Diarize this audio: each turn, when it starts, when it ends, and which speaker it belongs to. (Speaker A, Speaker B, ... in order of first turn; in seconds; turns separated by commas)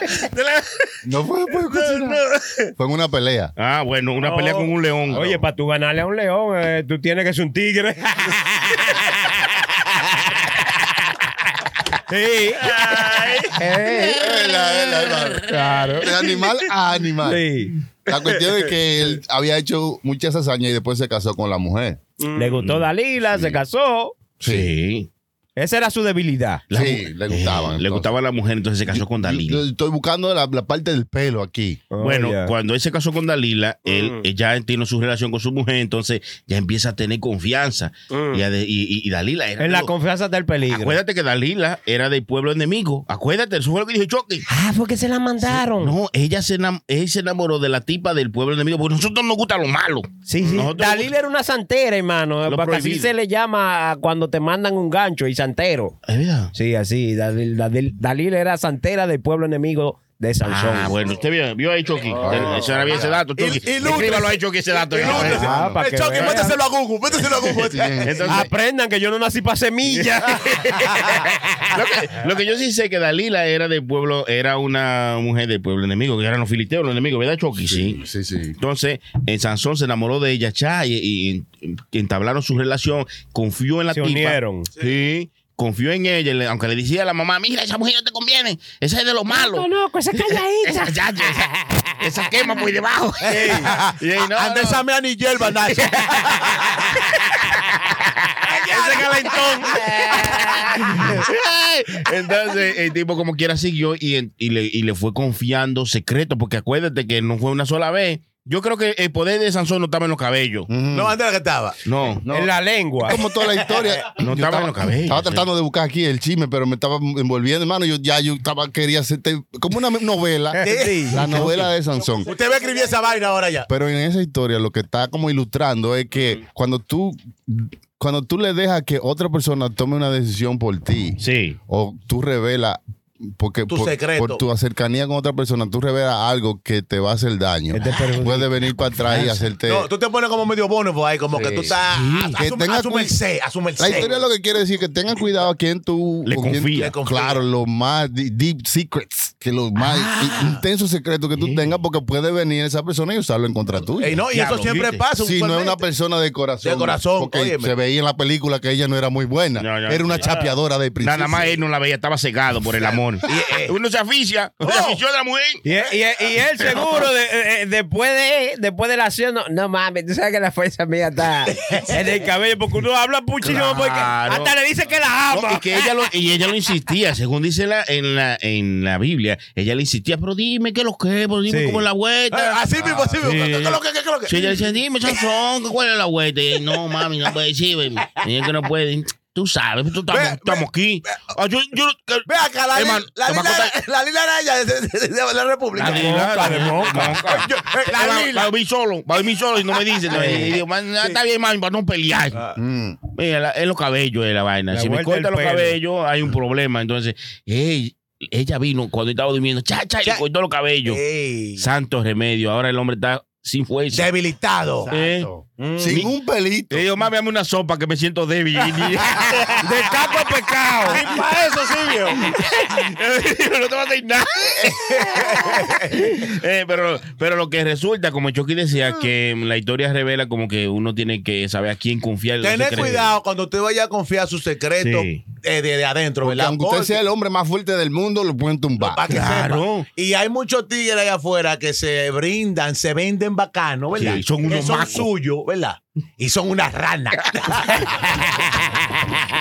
Speaker A: 0.1-0.9, Speaker B: 1.1-2.2, Speaker A: 1.7-2.7, Speaker B: 2.8-3.5, Speaker C: 3.6-5.4, Speaker A: 4.2-4.7, Speaker D: 5.1-8.4, Speaker D: 12.1-12.8, Speaker A: 12.6-13.6, Speaker D: 13.6-14.2, Speaker B: 14.1-15.5, Speaker C: 14.4-15.3, Speaker D: 15.5-16.1, Speaker B: 16.0-17.4, Speaker D: 17.2-17.8, Speaker B: 18.1-22.0, Speaker A: 22.2-22.6, Speaker D: 22.4-24.1, Speaker C: 22.6-22.9, Speaker B: 23.2-23.6, Speaker B: 24.4-24.7, Speaker C: 24.4-25.1, Speaker D: 25.6-26.6, Speaker C: 26.7-29.6, Speaker B: 26.7-28.1, Speaker B: 28.9-31.8, Speaker D: 31.9-32.5, Speaker C: 32.0-39.9, Speaker A: 33.9-34.2, Speaker A: 38.1-38.4, Speaker D: 39.6-41.0, Speaker C: 40.7-44.5, Speaker D: 44.5-46.0, Speaker C: 45.4-51.1, Speaker D: 50.3-56.0, Speaker C: 52.5-53.1, Speaker C: 56.1-56.5, Speaker D: 56.5-60.9, Speaker C: 60.4-65.5, Speaker B: 62.1-63.2, Speaker E: 63.4-68.3, Speaker B: 65.0-65.8, Speaker D: 65.1-66.6, Speaker B: 67.7-68.5, Speaker C: 68.0-68.5, Speaker D: 68.3-70.5, Speaker C: 69.9-78.0, Speaker E: 70.9-71.2, Speaker B: 77.6-78.6, Speaker C: 78.6-94.8, Speaker D: 83.9-84.7, Speaker D: 89.3-90.9, Speaker E: 93.2-96.8, Speaker D: 93.3-93.7, Speaker C: 95.7-96.0, Speaker E: 98.5-99.1, Speaker D: 98.7-99.8, Speaker C: 99.7-110.7, Speaker B: 110.7-111.2, Speaker E: 110.9-111.8, Speaker C: 111.8-112.2, Speaker B: 112.2-122.3, Speaker D: 112.3-113.2, Speaker E: 113.5-114.0, Speaker C: 114.2-115.5, Speaker D: 120.5-121.3, Speaker E: 120.6-121.6, Speaker C: 121.3-121.7, Speaker E: 122.2-123.7, Speaker B: 123.7-139.9, Speaker C: 131.2-131.6, Speaker E: 133.7-134.4, Speaker D: 137.7-138.5, Speaker C: 139.1-139.4, Speaker E: 139.7-144.3, Speaker B: 141.3-141.7, Speaker C: 141.9-142.4, Speaker B: 142.3-143.2, Speaker B: 143.8-154.2, Speaker C: 146.3-146.9, Speaker E: 146.8-147.4, Speaker E: 149.8-150.6, Speaker C: 151.4-151.7, Speaker E: 154.0-155.8, Speaker C: 154.3-155.0, Speaker B: 155.2-161.6, Speaker E: 156.6-157.7, Speaker C: 159.6-160.3, Speaker A: 160.2-160.5, Speaker C: 161.0-165.6, Speaker E: 162.8-163.7, Speaker E: 164.6-165.0, Speaker D: 165.6-175.9, Speaker E: 171.5-172.0, Speaker C: 173.4-174.6, Speaker C: 175.3-193.7, Speaker D: 181.5-181.8, Speaker E: 182.3-185.2, Speaker E: 190.1-190.6, Speaker E: 192.3-198.5, Speaker C: 195.8-202.4, Speaker D: 195.8-197.2, Speaker D: 200.1-200.4, Speaker B: 202.6-203.0, Speaker C: 203.1-211.0, Speaker D: 204.7-205.8, Speaker E: 210.9-211.7, Speaker C: 211.6-214.1, Speaker E: 213.9-214.9, Speaker B: 214.9-216.9, Speaker C: 214.9-215.3, Speaker E: 215.6-216.1, Speaker C: 216.7-219.6, Speaker D: 219.6-221.0, Speaker A: 220.9-222.2, Speaker C: 222.2-233.2, Speaker E: 224.6-226.0, Speaker E: 232.4-237.0, Speaker C: 234.8-235.2, Speaker B: 236.2-239.0, Speaker E: 238.8-248.6, Speaker C: 239.1-239.9, Speaker C: 243.9-245.1